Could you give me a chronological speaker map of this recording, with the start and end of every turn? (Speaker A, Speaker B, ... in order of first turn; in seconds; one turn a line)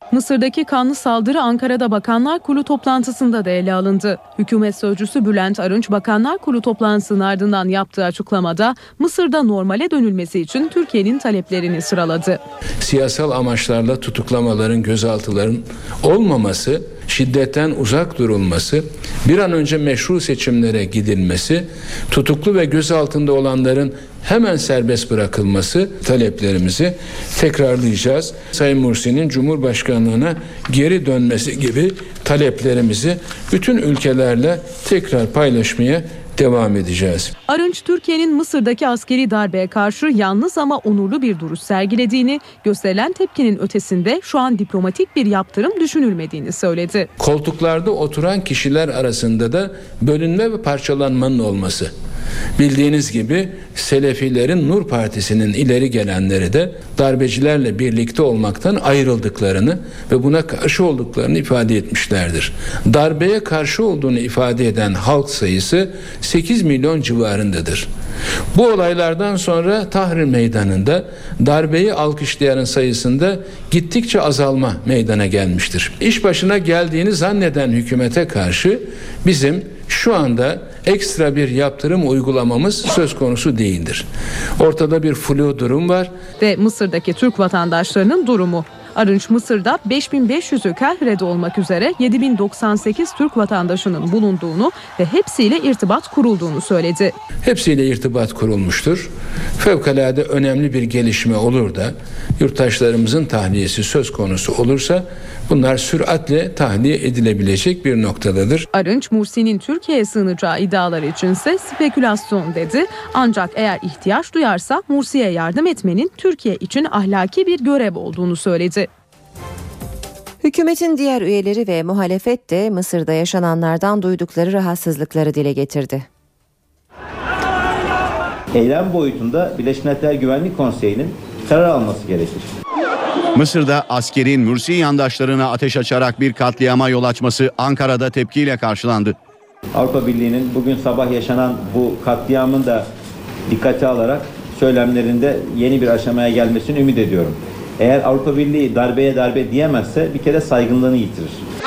Speaker A: 0.1-12.4
Speaker B: 12.8-37.3
Speaker A: 37.5-47.1
Speaker B: 47.2-51.9
Speaker B: 52.6-67.9
Speaker B: 68.5-84.1
Speaker B: 84.6-86.1
Speaker A: 86.4-97.2
Speaker B: 97.4-108.7
Speaker A: 108.7-118.9
Speaker C: 120.4-126.1
Speaker D: 128.6-132.5
Speaker E: 133.3-139.2
Speaker D: 139.8-142.9
Speaker D: 143.5-151.4